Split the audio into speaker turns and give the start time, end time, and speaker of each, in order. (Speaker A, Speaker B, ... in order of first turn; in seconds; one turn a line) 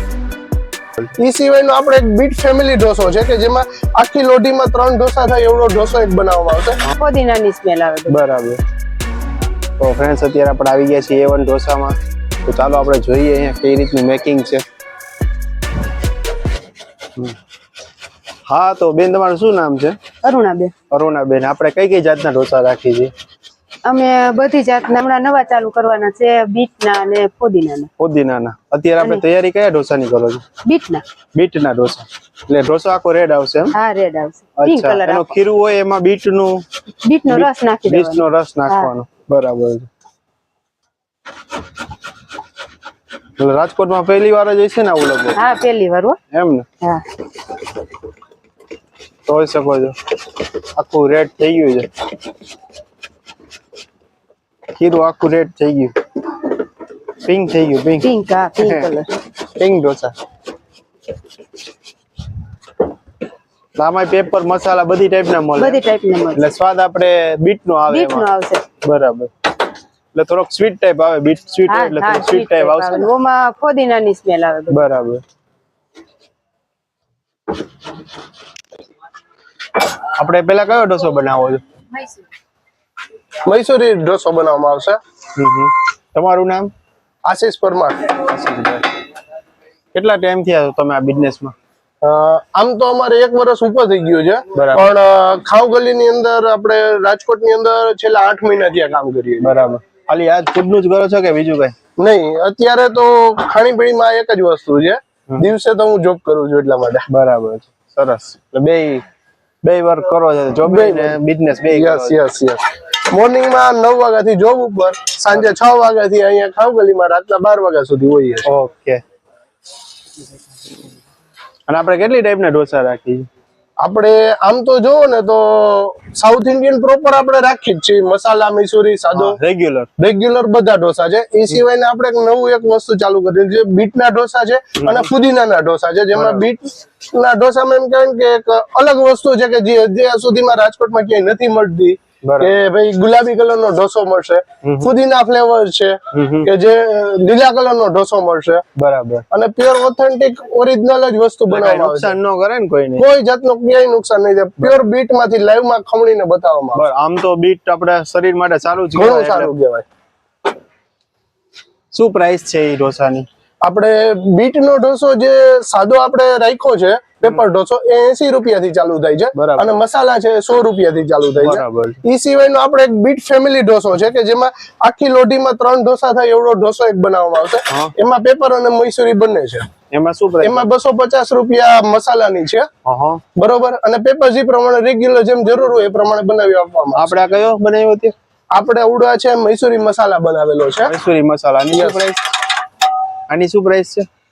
Speaker A: 1.2-6.8
Speaker B: 6.9-8.2
Speaker C: 8.1-8.6
Speaker C: 9.8-14.7
Speaker C: 18.5-20.0
Speaker B: 20.2-20.7
Speaker C: 20.9-23.1
Speaker B: 23.9-27.9
Speaker C: 28.0-30.4
Speaker B: 30.6-31.1
Speaker C: 31.3-33.8
Speaker B: 33.7-35.3
Speaker C: 34.6-36.6
Speaker B: 37.0-38.9
Speaker C: 37.3-39.9
Speaker C: 43.4-45.4
Speaker B: 45.4-46.2
Speaker C: 46.3-46.7
Speaker C: 49.3-50.0
Speaker C: 50.8-51.9
Speaker C: 54.8-56.0
Speaker C: 57.2-58.9
Speaker B: 58.0-59.1
Speaker C: 59.6-60.1
Speaker C: 63.8-65.8
Speaker B: 65.6-66.5
Speaker C: 66.3-68.3
Speaker B: 67.9-68.7
Speaker C: 68.8-69.3
Speaker C: 70.1-73.1
Speaker B: 71.7-74.8
Speaker C: 74.7-75.2
Speaker C: 80.1-81.6
Speaker A: 83.5-85.0
Speaker C: 85.4-86.7
Speaker A: 87.2-88.1
Speaker C: 88.3-88.9
Speaker C: 89.9-91.5
Speaker A: 92.0-99.5
Speaker C: 94.5-94.8
Speaker C: 99.4-101.8
Speaker A: 102.0-107.0
Speaker C: 107.1-109.0
Speaker C: 109.6-112.2
Speaker A: 110.6-111.2
Speaker A: 111.7-118.5
Speaker C: 118.5-119.0
Speaker C: 121.7-123.3
Speaker A: 123.8-129.4
Speaker C: 129.1-129.9
Speaker A: 130.0-148.7
Speaker C: 134.8-135.1
Speaker C: 136.1-136.5
Speaker C: 142.2-142.5
Speaker C: 144.6-144.9
Speaker C: 146.1-146.5
Speaker C: 148.8-149.2
Speaker A: 149.3-152.2
Speaker C: 151.5-153.1
Speaker A: 153.0-156.9
Speaker C: 156.8-159.5
Speaker A: 158.9-159.9
Speaker C: 161.9-163.3
Speaker A: 163.6-179.7
Speaker C: 169.3-169.8
Speaker C: 171.4-172.0
Speaker C: 179.9-180.7
Speaker A: 180.4-182.7
Speaker C: 182.8-183.2
Speaker A: 183.3-187.2
Speaker C: 186.9-188.1
Speaker A: 188.5-190.9
Speaker C: 190.8-192.3
Speaker A: 191.7-192.0
Speaker C: 193.3-194.1